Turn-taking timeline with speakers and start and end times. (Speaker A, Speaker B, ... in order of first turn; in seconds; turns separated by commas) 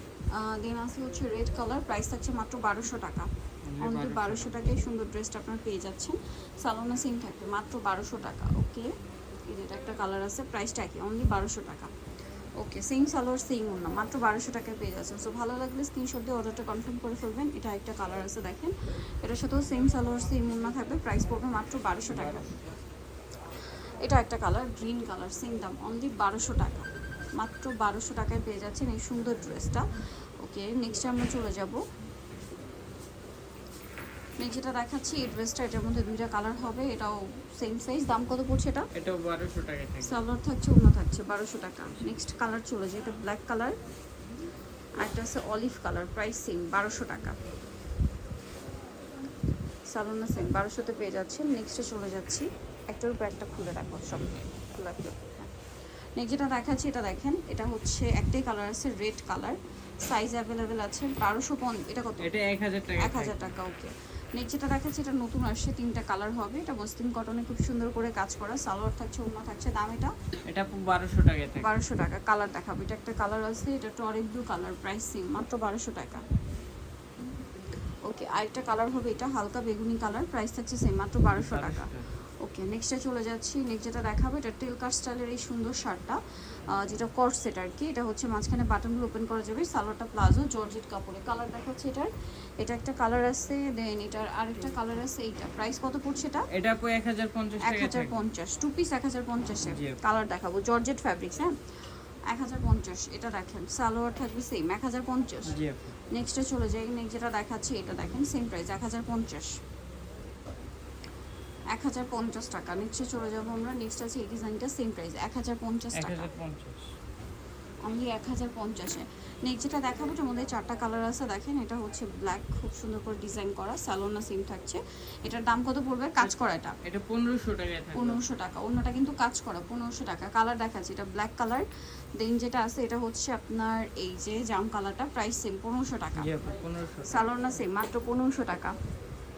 Speaker A: 0.3-8.9, Speaker B: 3.7-4.8, Speaker A: 9.5-11.9, Speaker A: 12.6-22.5, Speaker B: 22.1-22.5, Speaker A: 24.0-31.8, Speaker A: 34.4-38.9, Speaker B: 38.9-40.2, Speaker A: 40.0-43.8, Speaker A: 45.0-47.4, Speaker A: 49.9-55.5, Speaker A: 56.2-62.3, Speaker B: 62.2-63.5, Speaker A: 63.0-70.1, Speaker B: 70.5-71.7, Speaker A: 71.6-76.2, Speaker A: 78.0-96.5, Speaker B: 81.3-82.1, Speaker B: 96.5-98.2, Speaker A: 97.6-109.6, Speaker B: 99.7-100.0, Speaker B: 105.4-105.9, Speaker A: 111.7-116.3, Speaker B: 115.9-116.9, Speaker A: 117.8-126.7, Speaker B: 126.2-128.2, Speaker A: 127.9-131.7, Speaker A: 132.2-136.4, Speaker B: 136.2-137.2, Speaker A: 137.1-138.7